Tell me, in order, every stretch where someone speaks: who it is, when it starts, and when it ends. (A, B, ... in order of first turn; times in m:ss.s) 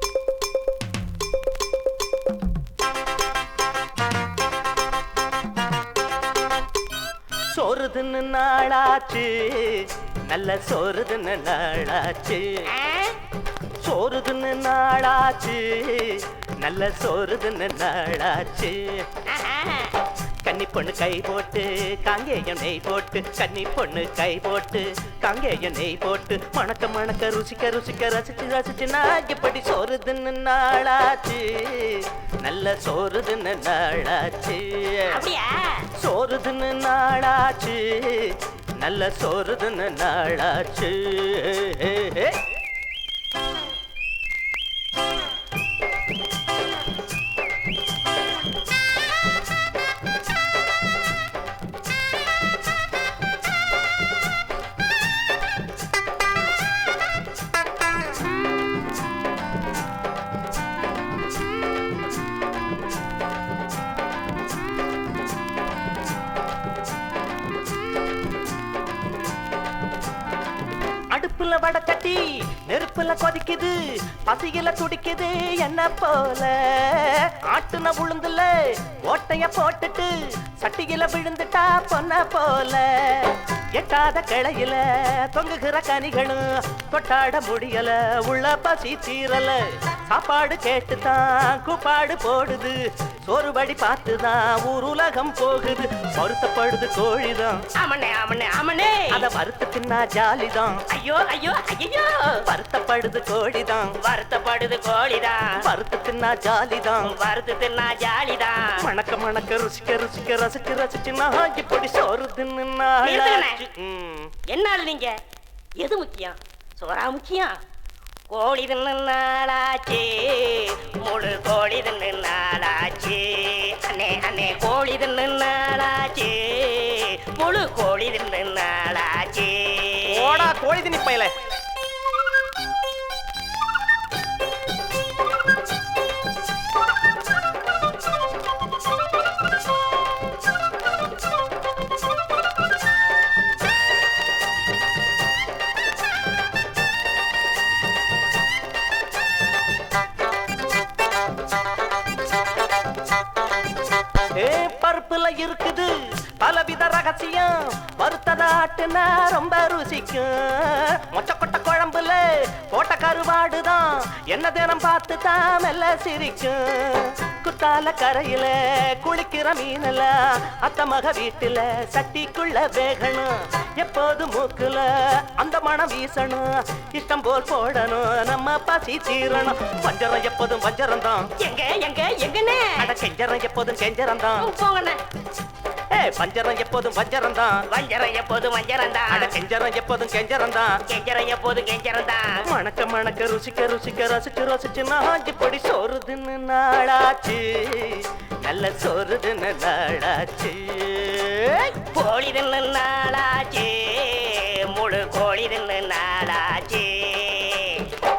0:07.5-0:12.6 A
0:12.7-0:13.2 B
0:13.8-0:19.0 A
0:19.3-0:20.0 B
0:20.4-0:35.2 A
0:35.1-0:35.9 B
0:36.0-0:42.4 A
1:11.1-1:13.8 A
1:14.3-1:32.8 A
1:33.3-1:37.6 A
1:37.8-1:39.3 B
1:39.1-1:40.8 A
1:40.9-1:42.4 B
1:42.5-1:44.0 A
1:44.0-1:45.6 B
1:45.6-1:47.1 A
1:47.0-1:48.8 B
1:48.8-1:54.3 A
1:53.0-1:53.6 B
1:54.5-1:55.2 B
1:55.8-1:57.6 B
1:58.3-2:10.5 B
2:10.1-2:11.3 A
2:34.4-3:01.3 A
3:01.4-3:02.9 B
3:02.8-3:04.5 A
3:04.4-3:05.0 B
3:06.0-3:07.6 A
3:07.7-3:09.4 B
3:09.1-3:10.8 A
3:10.9-3:12.4 B
3:12.5-3:21.7 A
3:21.9-3:27.9 B